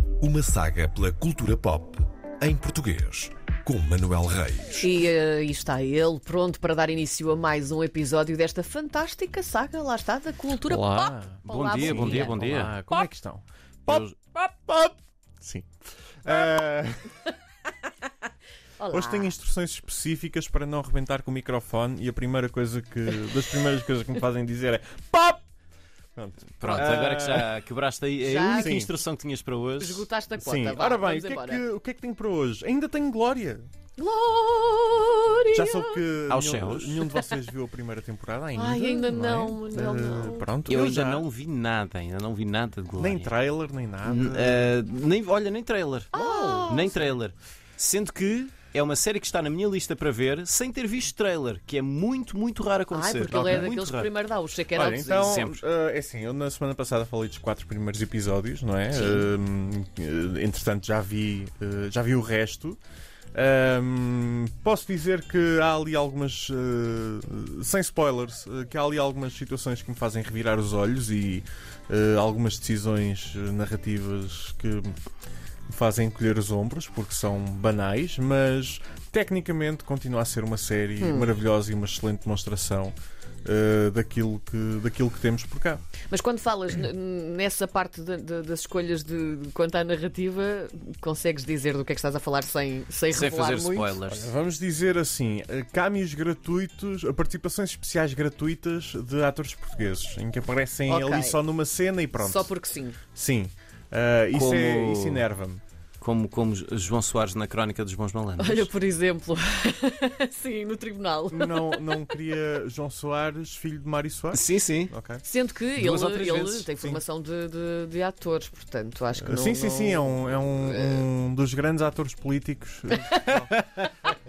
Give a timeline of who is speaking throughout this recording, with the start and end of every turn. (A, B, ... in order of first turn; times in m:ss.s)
0:00.2-0:04.8 A
0:04.8-0:12.5 B
0:10.6-0:15.7 C
0:11.5-0:12.8 D
0:13.9-0:14.2 D
0:16.2-0:17.1 C
0:18.8-0:19.3 B
0:18.9-0:25.4 C
0:26.2-0:27.6 C
0:26.6-0:30.1 D
0:26.6-0:27.0 B
0:28.2-0:28.9 B
0:28.5-0:28.9 C
0:29.8-0:31.7 B
0:30.4-0:33.7 C
0:34.0-0:36.0 B
0:35.5-0:41.2 C
0:36.3-0:37.0 D
0:38.6-0:40.5 B
0:40.7-0:43.3 D
0:43.0-0:44.7 C
0:44.0-0:46.1 D
0:46.1-0:46.9 B
0:46.1-0:47.1 C
0:46.7-0:54.1 D
0:52.9-0:55.4 B
0:53.3-0:53.7 C
0:54.7-1:02.8 C
0:55.2-0:55.6 D
0:58.9-0:59.3 B
1:03.3-1:15.0 C
1:15.7-1:22.9 C
1:21.0-1:21.3 B
1:23.4-1:25.8 C
1:26.1-1:34.0 B
1:33.1-1:34.3 D
1:34.1-1:42.5 C
1:40.9-1:41.4 B
1:42.2-1:43.0 B
1:43.2-1:45.6 C
1:44.3-1:45.3 D
1:46.0-1:48.7 D
1:48.4-1:52.1 B
1:51.3-1:55.2 C
1:54.3-1:54.9 D
1:55.2-2:01.1 B
1:55.8-1:56.7 D
1:59.2-2:03.5 C